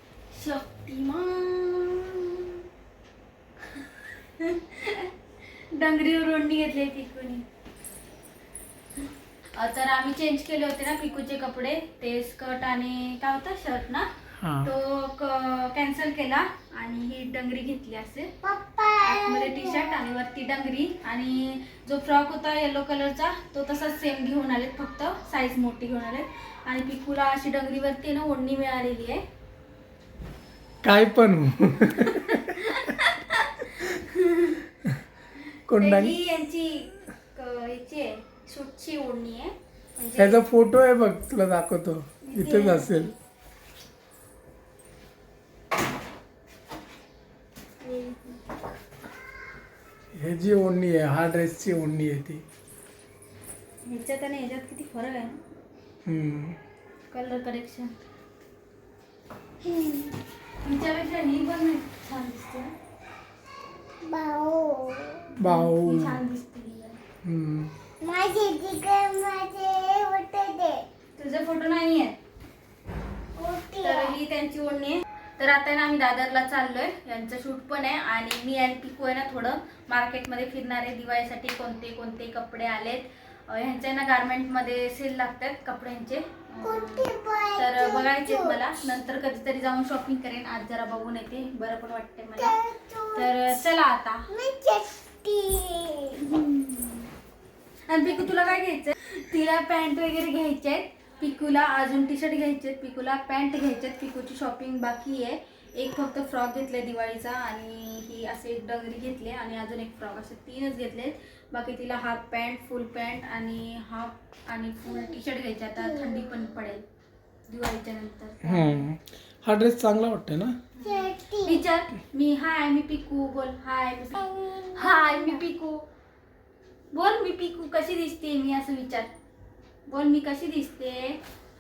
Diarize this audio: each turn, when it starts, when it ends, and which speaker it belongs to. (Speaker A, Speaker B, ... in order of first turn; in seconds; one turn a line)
Speaker A: 0.3-2.3
Speaker A: 4.4-5.1
Speaker A: 5.7-7.5
Speaker A: 9.6-14.1
Speaker B: 14.4-14.7
Speaker A: 14.6-18.3
Speaker C: 18.4-20.1
Speaker A: 19.1-29.2
Speaker B: 30.8-32.7
Speaker A: 31.9-34.6
Speaker B: 35.7-36.2
Speaker A: 35.8-40.4
Speaker B: 40.2-43.1
Speaker A: 42.2-43.1
Speaker A: 47.8-48.4
Speaker B: 50.1-52.4
Speaker A: 53.9-55.3
Speaker B: 56.1-56.6
Speaker A: 57.1-58.0
Speaker C: 59.6-60.1
Speaker A: 60.6-62.7
Speaker C: 64.0-65.3
Speaker B: 65.4-66.2
Speaker A: 65.4-67.0
Speaker B: 67.2-67.7
Speaker C: 68.0-70.8
Speaker A: 71.2-72.2
Speaker C: 73.4-74.2
Speaker A: 73.8-92.6
Speaker C: 86.6-88.6
Speaker C: 92.4-93.3
Speaker A: 93.2-94.2
Speaker C: 94.3-96.2
Speaker A: 96.2-97.1
Speaker A: 97.9-116.8
Speaker C: 115.8-116.5
Speaker A: 117.5-118.8
Speaker B: 118.4-120.5
Speaker A: 120.8-125.8
Speaker C: 120.8-121.6
Speaker C: 124.2-125.4
Speaker A: 126.9-129.1
Speaker A: 129.9-131.2